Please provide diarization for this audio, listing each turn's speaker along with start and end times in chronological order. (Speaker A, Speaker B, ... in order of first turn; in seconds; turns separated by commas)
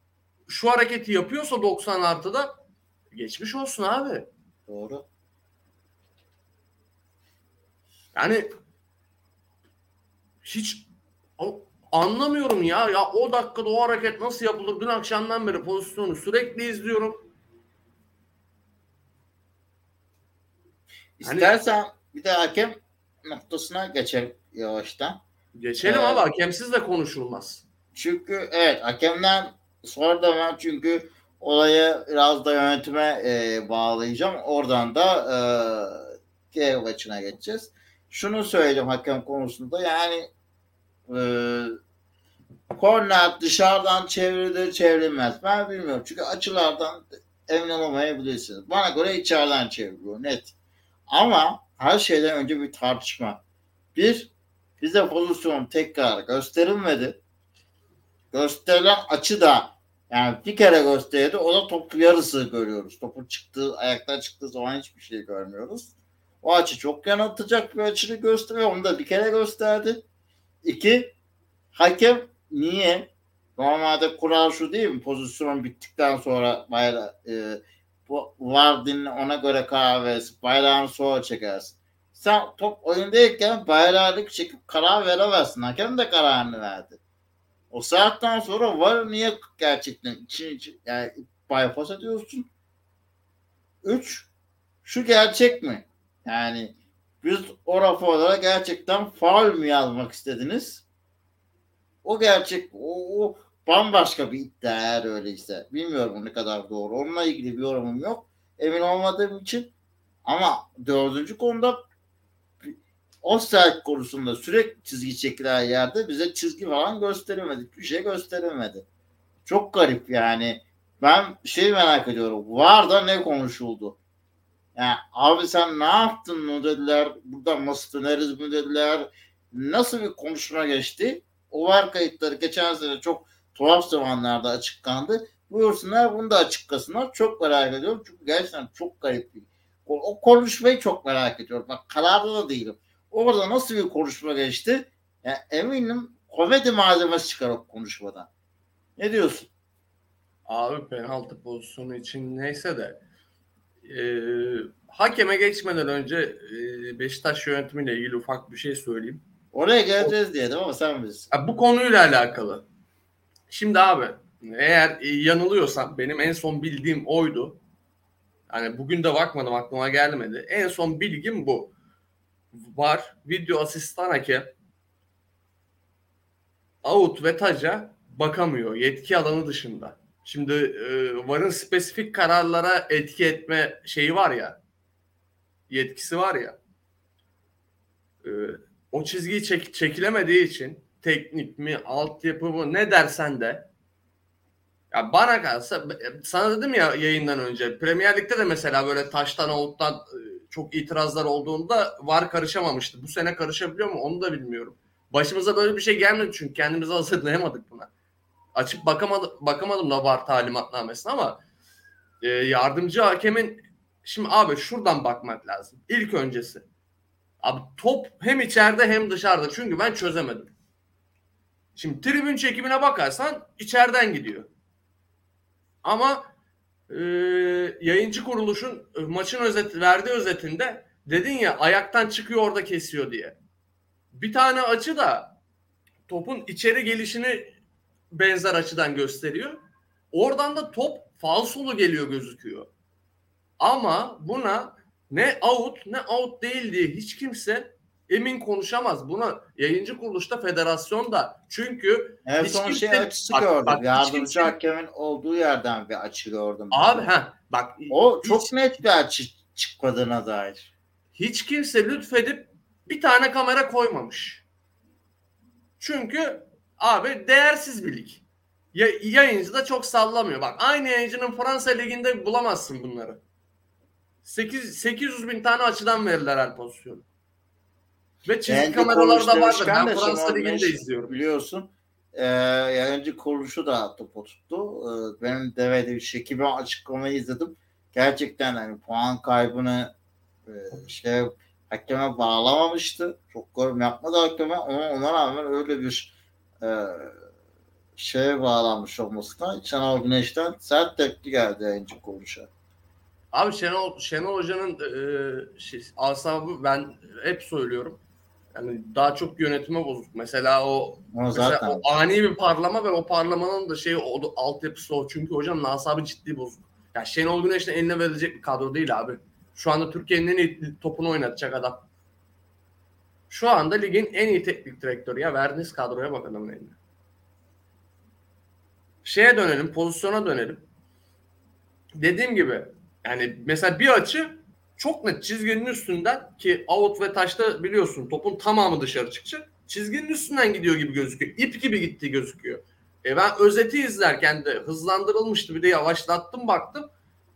Speaker A: 0.5-2.6, Speaker A: 3.1-4.3, Speaker B: 4.7-5.0, Speaker A: 8.2-8.5, Speaker A: 10.4-17.3, Speaker B: 21.2-25.2, Speaker A: 21.2-21.5, Speaker A: 25.6-27.6, Speaker B: 25.8-26.2, Speaker B: 27.9-40.3, Speaker B: 41.1-41.8, Speaker B: 42.7-50.5, Speaker B: 51.1-53.4, Speaker B: 54.0-57.2, Speaker B: 58.3-70.0, Speaker B: 70.6-71.2, Speaker B: 71.7-87.0, Speaker B: 87.7-92.5, Speaker B: 93.8-94.3, Speaker B: 94.8-100.8, Speaker B: 102.0-109.7, Speaker B: 110.3-111.8, Speaker B: 112.6-118.8, Speaker B: 119.5-124.0, Speaker B: 124.8-148.3, Speaker B: 149.0-149.5, Speaker A: 150.5-153.0, Speaker A: 153.9-159.2, Speaker B: 159.5-161.3, Speaker A: 161.3-162.7, Speaker A: 163.5-167.6, Speaker A: 168.5-171.7, Speaker A: 172.5-174.5, Speaker A: 176.8-184.6, Speaker A: 185.7-186.6, Speaker A: 188.2-193.7, Speaker A: 194.9-207.9, Speaker A: 208.6-211.4, Speaker A: 212.2-216.7, Speaker A: 217.4-220.5, Speaker A: 221.8-224.5, Speaker A: 225.8-226.3, Speaker A: 226.9-233.4, Speaker A: 234.1-235.4, Speaker A: 236.1-237.6, Speaker A: 238.1-239.6, Speaker A: 240.1-242.7, Speaker A: 243.6-254.5, Speaker B: 252.2-257.1, Speaker A: 256.7-258.6, Speaker B: 257.9-260.7, Speaker A: 261.2-264.4, Speaker A: 265.8-273.2, Speaker A: 274.2-277.1, Speaker A: 278.3-281.2, Speaker B: 278.5-289.9, Speaker B: 290.5-297.2, Speaker B: 298.0-302.5, Speaker A: 303.3-308.0, Speaker A: 308.5-321.9, Speaker B: 311.1-311.8, Speaker A: 323.3-326.8, Speaker A: 329.0-330.7, Speaker A: 332.0-346.9